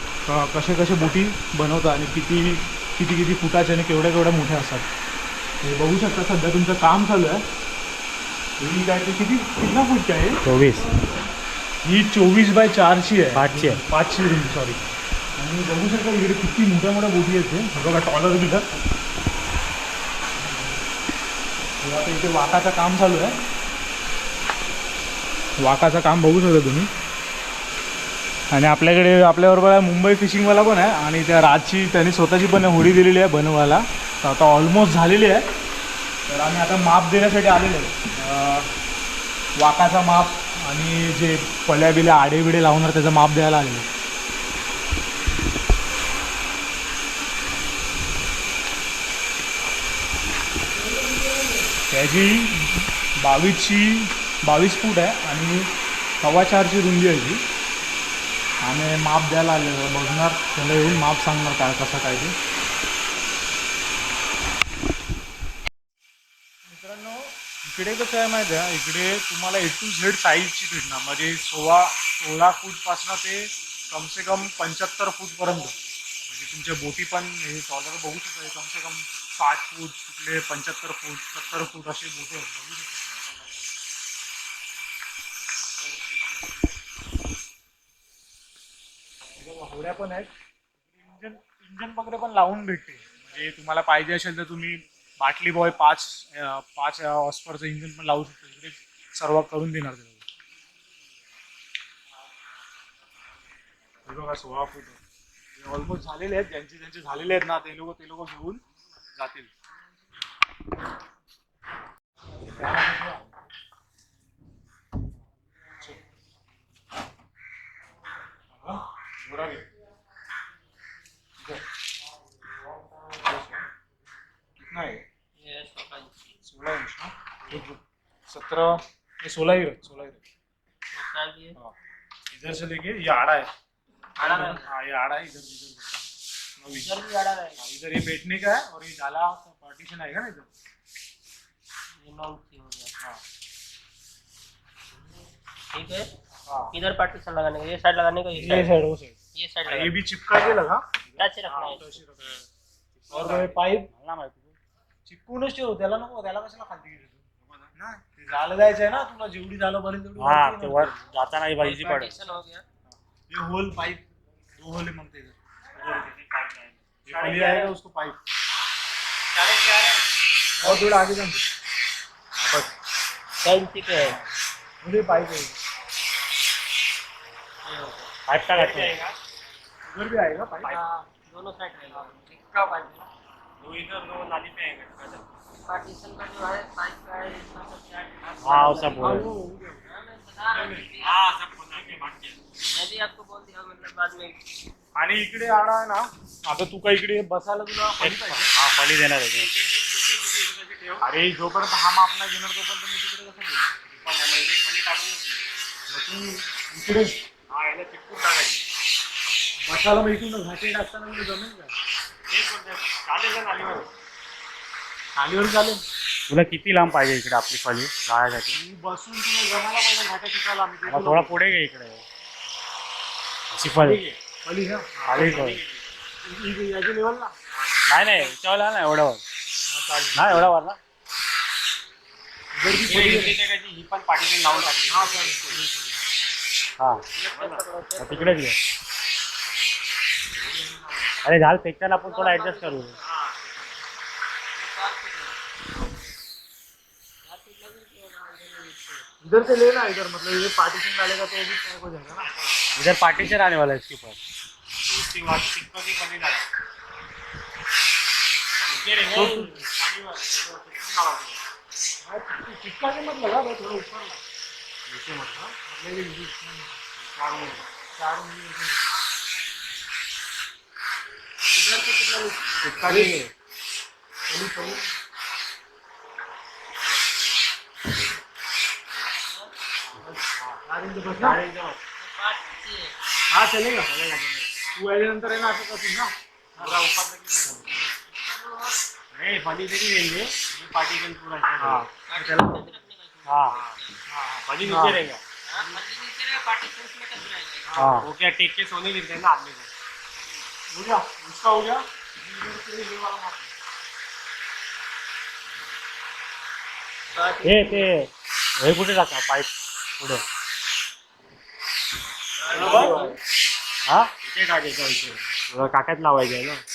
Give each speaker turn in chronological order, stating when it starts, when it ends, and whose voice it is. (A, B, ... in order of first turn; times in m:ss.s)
0:00.2-0:04.9 A
0:05.6-0:07.4 A
0:08.6-0:10.4 A
0:10.4-0:10.9 B
0:11.8-0:14.8 A
0:13.3-0:13.8 B
0:15.4-0:18.6 A
0:21.8-0:23.3 A
0:25.6-0:26.9 A
0:28.5-0:35.4 A
0:36.3-0:38.7 A
0:39.6-0:43.9 A
0:51.9-0:57.4 A
0:58.6-1:02.3 A
1:06.6-1:15.7 A
1:16.3-1:23.1 A
1:29.4-1:30.3 A
1:31.0-1:40.2 A
1:44.1-1:45.0 A
1:45.6-1:48.6 A
1:49.2-1:49.5 A
1:52.4-1:53.2 A
1:58.6-1:59.6 A
2:03.2-2:03.6 A
2:04.7-2:05.0 A
2:05.4-2:06.2 C
2:06.4-2:10.2 A
2:10.9-2:11.5 C
2:12.3-2:13.5 A
2:14.2-2:14.7 C
2:14.2-2:15.9 A
2:16.6-2:16.9 A
2:16.7-2:17.6 C
2:17.6-2:20.5 A
2:22.0-2:22.9 C
2:25.7-2:26.1 C
2:26.5-2:26.7 A
2:26.7-2:28.7 C
2:28.3-2:32.4 A
2:29.3-2:30.0 C
2:31.2-2:32.0 C
2:33.1-2:33.9 A
2:33.1-2:34.5 B
2:35.1-2:37.2 A
2:37.8-2:40.9 A
2:40.2-2:42.2 B
2:41.6-2:42.6 C
2:42.9-2:44.0 A
2:44.6-2:45.4 A
2:45.8-2:46.7 B
2:47.0-2:48.2 A
2:49.4-2:49.9 C
2:50.6-2:51.4 A
2:53.4-2:54.2 C
2:54.8-2:55.5 A
2:57.6-2:58.1 C
2:58.3-2:59.0 B
2:59.9-3:00.8 A
3:00.6-3:03.1 C
3:03.6-3:05.2 B
3:05.6-3:09.3 C
3:08.4-3:09.3 B
3:09.0-3:10.0 A
3:09.8-3:11.5 C
3:10.5-3:10.9 A
3:11.0-3:12.4 B
3:11.7-3:12.0 A
3:12.7-3:14.4 C
3:14.9-3:18.5 A
3:18.0-3:19.7 B
3:21.0-3:24.1 A
3:24.2-3:25.0 B
3:25.9-3:27.1 A
3:27.5-3:28.6 B
3:29.7-3:31.7 A
3:32.3-3:33.9 B
3:35.2-3:35.8 A
3:36.3-3:38.6 B
3:38.5-3:41.4 A
3:40.8-3:42.0 B
3:43.5-3:44.0 B
3:44.4-3:45.4 A
3:45.0-3:45.6 B
3:46.2-3:47.3 A
3:47.9-3:49.2 B
3:49.7-3:50.5 A
3:50.1-3:50.8 B
3:52.5-3:53.4 A
3:52.8-3:55.3 B
3:54.5-3:55.9 A
3:56.8-3:58.6 B
3:57.2-3:58.4 C
4:00.4-4:01.0 A
4:01.2-4:03.0 B
4:02.0-4:03.2 C
4:04.5-4:05.4 C
4:07.2-4:09.0 C
4:09.2-4:12.3 A
4:12.8-4:14.2 B
4:14.9-4:16.4 B
4:18.7-4:21.4 B
4:19.1-4:19.7 A
4:22.0-4:24.2 A
4:24.9-4:25.4 B
4:25.4-4:26.8 A
4:27.0-4:27.6 B
4:28.0-4:29.0 A
4:31.5-4:33.0 C
4:32.6-4:33.3 B
4:32.9-4:33.1 A
4:34.3-4:34.8 A
4:39.9-4:40.5 B
4:40.6-4:41.4 A
4:41.2-4:41.8 B
4:42.0-4:43.0 C
4:43.3-4:43.9 A
4:43.9-4:44.5 B
4:44.7-4:46.8 A
4:46.6-4:47.9 B
4:48.3-4:48.7 C
4:49.1-4:51.9 B
4:52.1-4:53.9 C
4:52.2-4:52.5 A
4:53.3-4:53.6 B
4:54.1-4:55.0 A
4:54.5-4:55.2 B
4:55.5-4:57.7 C
4:57.7-4:58.0 A
4:57.8-4:59.7 B
5:00.7-5:03.5 A
5:07.1-5:07.9 C
5:07.4-5:10.2 B
5:12.4-5:13.2 C
5:12.5-5:13.1 A
5:12.7-5:13.0 B
5:13.9-5:16.6 B